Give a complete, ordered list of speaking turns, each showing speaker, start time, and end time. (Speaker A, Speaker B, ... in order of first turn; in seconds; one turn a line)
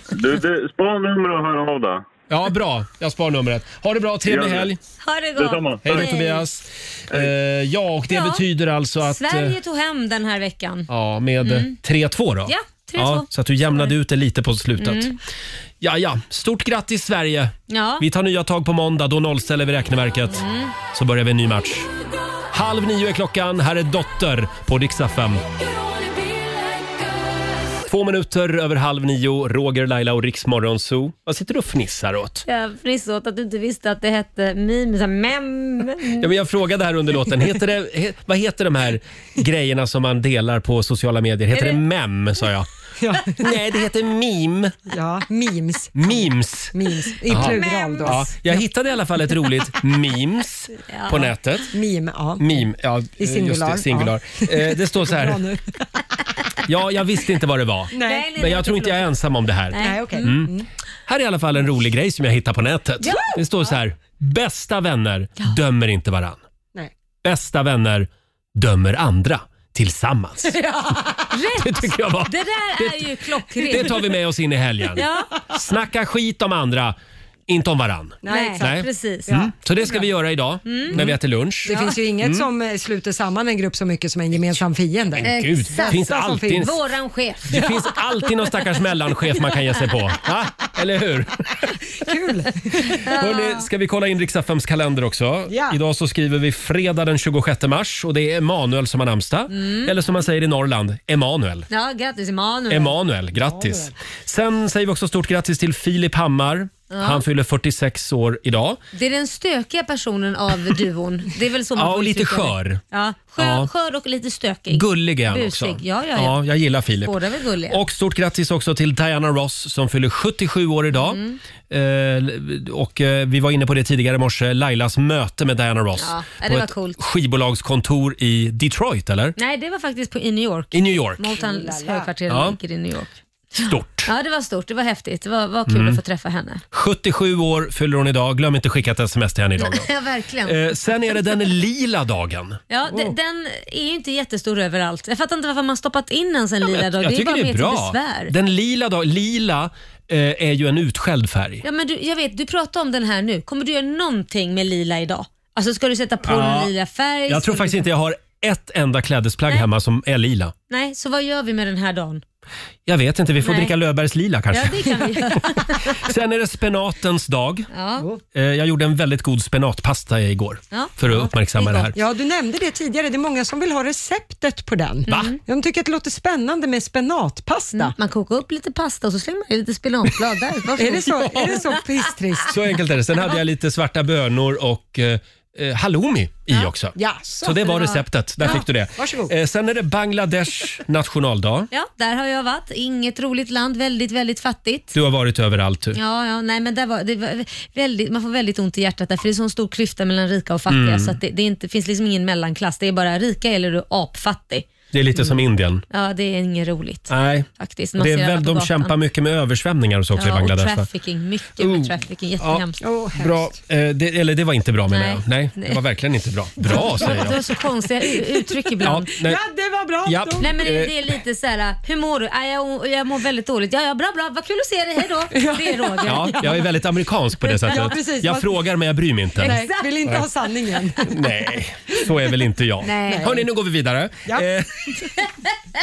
Speaker A: 0.1-2.1
Speaker B: 2.3-4.8
Speaker A: 4.2-4.7
Speaker C: 5.0-6.4
Speaker A: 5.3-6.1
Speaker B: 5.8-9.6
Speaker C: 8.1-8.4
Speaker C: 9.1-10.9
Speaker B: 10.9-15.1
Speaker C: 11.4-11.8
Speaker C: 12.5-13.9
Speaker C: 14.8-15.2
Speaker B: 15.8-21.9
Speaker C: 17.7-18.0
Speaker C: 20.3-20.7
Speaker B: 22.5-25.4
Speaker B: 27.8-32.4
Speaker C: 32.5-36.3
Speaker B: 36.2-42.7
Speaker C: 41.5-41.8
Speaker D: 43.0-43.5
Speaker B: 43.3-44.8
Speaker D: 44.9-48.6
Speaker B: 46.0-46.7
Speaker B: 47.3-51.7
Speaker C: 47.3-48.2
Speaker C: 50.8-51.3
Speaker D: 51.7-52.5
Speaker B: 52.4-55.4
Speaker D: 53.2-55.8
Speaker B: 56.6-60.5
Speaker D: 57.9-58.3
Speaker C: 58.0-59.1
Speaker C: 59.7-60.3
Speaker D: 59.8-60.6
Speaker B: 61.1-66.4
Speaker C: 63.0-63.3
Speaker B: 67.2-70.5
Speaker D: 70.6-71.2
Speaker C: 71.3-74.0
Speaker B: 71.6-77.0
Speaker C: 75.0-75.3
Speaker B: 77.5-82.5
Speaker D: 78.2-80.1
Speaker C: 78.3-79.3
Speaker C: 80.6-81.0
Speaker D: 80.9-86.7
Speaker B: 85.2-86.7
Speaker C: 85.2-87.6
Speaker B: 87.5-91.6
Speaker D: 92.0-93.0
Speaker C: 93.0-93.7
Speaker B: 93.0-101.7
Speaker D: 95.5-95.8
Speaker C: 99.5-99.9
Speaker C: 101.7-102.9
Speaker B: 102.7-108.8
Speaker D: 103.4-103.9
Speaker C: 106.9-107.2
Speaker C: 108.9-116.4
Speaker B: 111.7-112.8
Speaker B: 113.4-113.7
Speaker B: 114.7-117.2
Speaker C: 117.0-117.8
Speaker B: 117.7-129.3
Speaker C: 120.9-121.4
Speaker C: 126.0-127.0
Speaker C: 129.4-136.6
Speaker B: 130.7-131.3
Speaker D: 131.3-132.1
Speaker B: 132.3-132.6
Speaker B: 133.6-134.1
Speaker B: 135.7-136.0
Speaker B: 136.7-139.9
Speaker C: 139.6-140.7
Speaker B: 140.4-142.6
Speaker C: 142.7-148.3
Speaker B: 146.6-151.6
Speaker C: 151.6-157.8
Speaker B: 156.3-156.7
Speaker B: 157.3-160.5
Speaker C: 160.7-162.2
Speaker B: 162.8-167.7
Speaker C: 163.4-163.7
Speaker C: 164.5-166.0
Speaker C: 167.7-168.1
Speaker B: 168.3-171.9
Speaker C: 171.6-171.8
Speaker D: 171.9-177.9
Speaker C: 175.1-175.4
Speaker C: 177.7-181.6
Speaker D: 180.8-182.6
Speaker B: 181.3-181.6
Speaker B: 182.5-191.7
Speaker D: 186.9-187.8
Speaker C: 187.6-188.6
Speaker D: 188.4-189.3
Speaker C: 191.7-194.9
Speaker B: 194.9-196.0
Speaker C: 195.9-205.4
Speaker B: 200.7-201.2
Speaker B: 204.9-205.8
Speaker C: 205.9-208.9
Speaker B: 207.1-210.8
Speaker C: 210.1-212.8
Speaker B: 211.6-217.4
Speaker D: 212.8-213.6
Speaker C: 214.9-215.8
Speaker C: 216.7-219.1
Speaker D: 218.1-218.4
Speaker B: 218.8-219.4
Speaker D: 219.2-220.6
Speaker B: 220.0-220.9
Speaker C: 220.4-226.6
Speaker D: 225.3-226.7
Speaker B: 226.0-230.2
Speaker D: 227.6-228.6
Speaker C: 227.7-227.9
Speaker C: 229.4-229.9
Speaker D: 229.4-231.3
Speaker B: 231.1-235.1
Speaker C: 232.8-233.4
Speaker D: 233.1-233.5